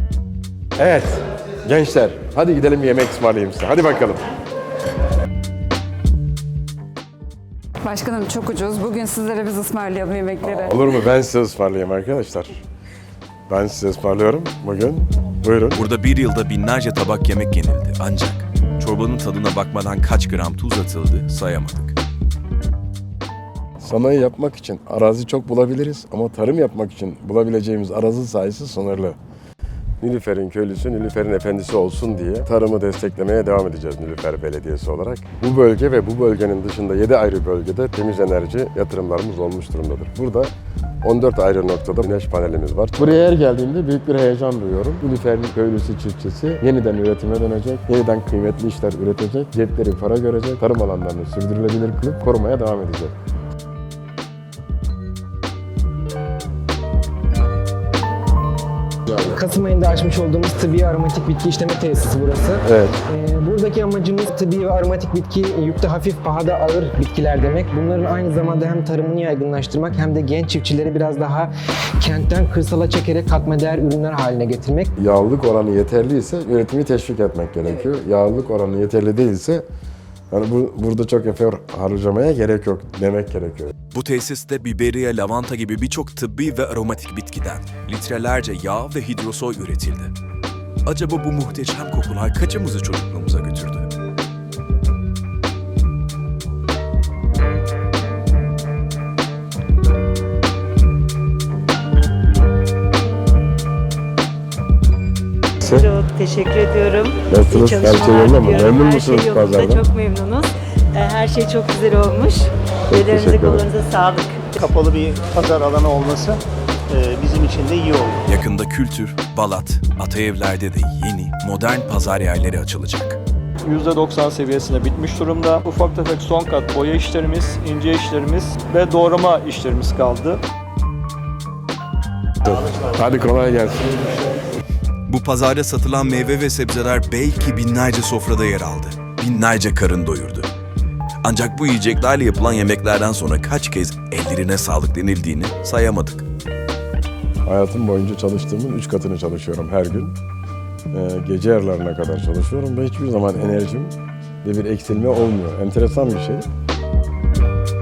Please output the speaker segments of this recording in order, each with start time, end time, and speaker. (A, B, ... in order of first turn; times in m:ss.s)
0:00.8-0:04.2 A
0:07.8-0:10.9 B
0:10.4-0:12.5 A
0:13.5-0:15.8 A
0:15.7-0:22.0 C
0:23.8-0:29.2 A
0:30.0-0:40.5 A
0:41.0-0:53.1 A
0:59.2-1:14.9 D
1:02.6-1:03.0 A
1:15.0-1:19.6 A
1:20.3-1:23.7 A
1:23.9-1:30.1 C
1:30.8-1:33.9 C
1:45.6-1:54.6 E
1:47.3-1:49.8 A
1:52.9-1:53.6 A
1:54.6-1:56.4 F
1:56.9-1:58.2 F
1:58.2-2:03.2 C
2:03.7-2:10.4 G
2:12.4-2:14.3 A
2:15.1-2:20.5 C
2:21.2-2:26.2 C
2:27.4-2:30.1 A
2:30.9-2:36.4 A